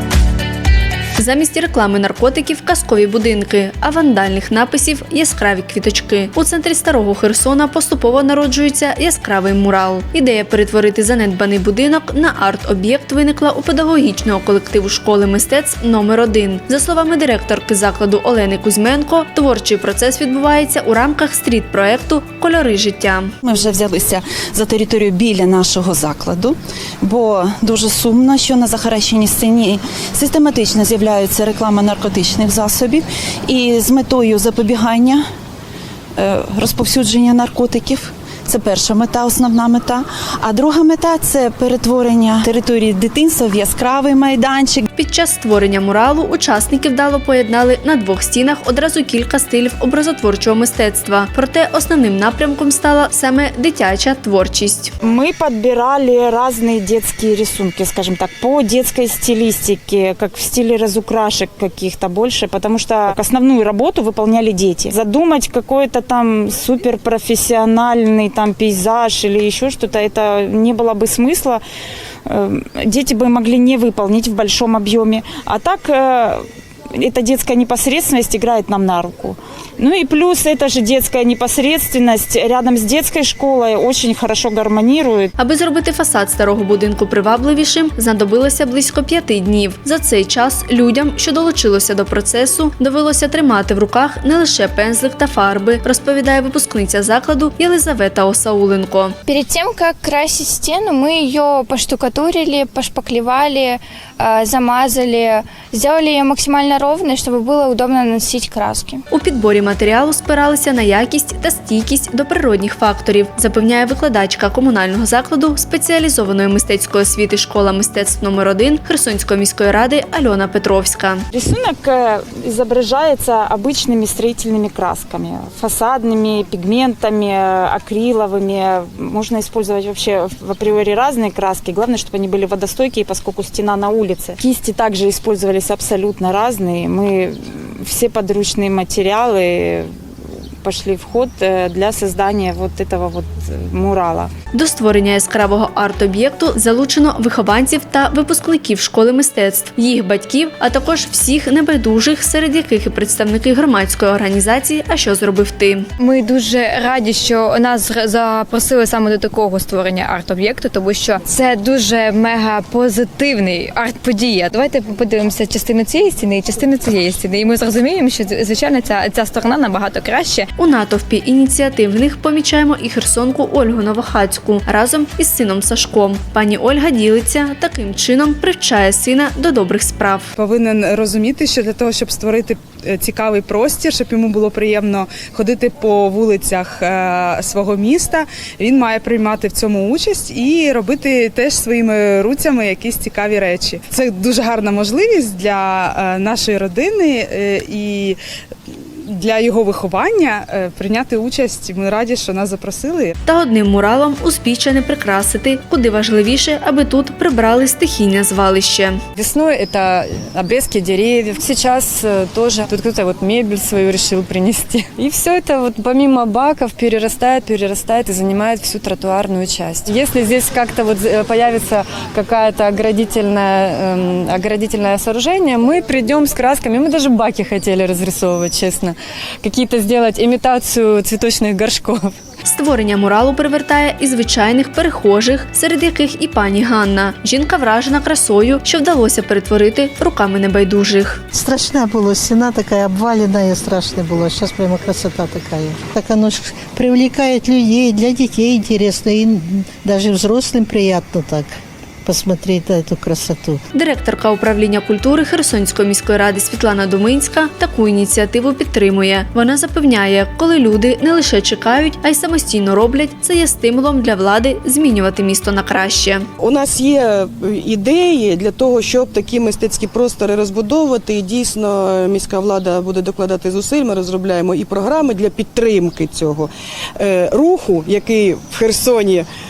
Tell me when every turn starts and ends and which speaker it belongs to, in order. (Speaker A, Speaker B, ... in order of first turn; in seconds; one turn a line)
Speaker A: 1.2-23.3
Speaker B: 23.5-26.5
Speaker B: 27.1-35.2
Speaker B: 36.3-44.8
Speaker A: 45.0-54.9
Speaker C: 55.0-71.6
Speaker C: 72.2-85.3
Speaker A: 85.4-99.2
Speaker D: 99.3-109.0
Speaker A: 109.1-121.2
Speaker C: 121.3-139.9
Speaker C: 140.6-144.3
Speaker A: 144.5-155.9
Speaker E: 156.0-170.5
Speaker A: 170.6-180.3
Speaker F: 180.4-198.2
Speaker F: 199.1-203.1
Speaker A: 203.3-209.0
Speaker G: 209.2-232.2
Speaker A: 232.4-241.2
Speaker H: 241.3-251.5
Speaker H: 252.1-253.6
Speaker A: 253.7-266.3
Speaker I: 266.4-279.3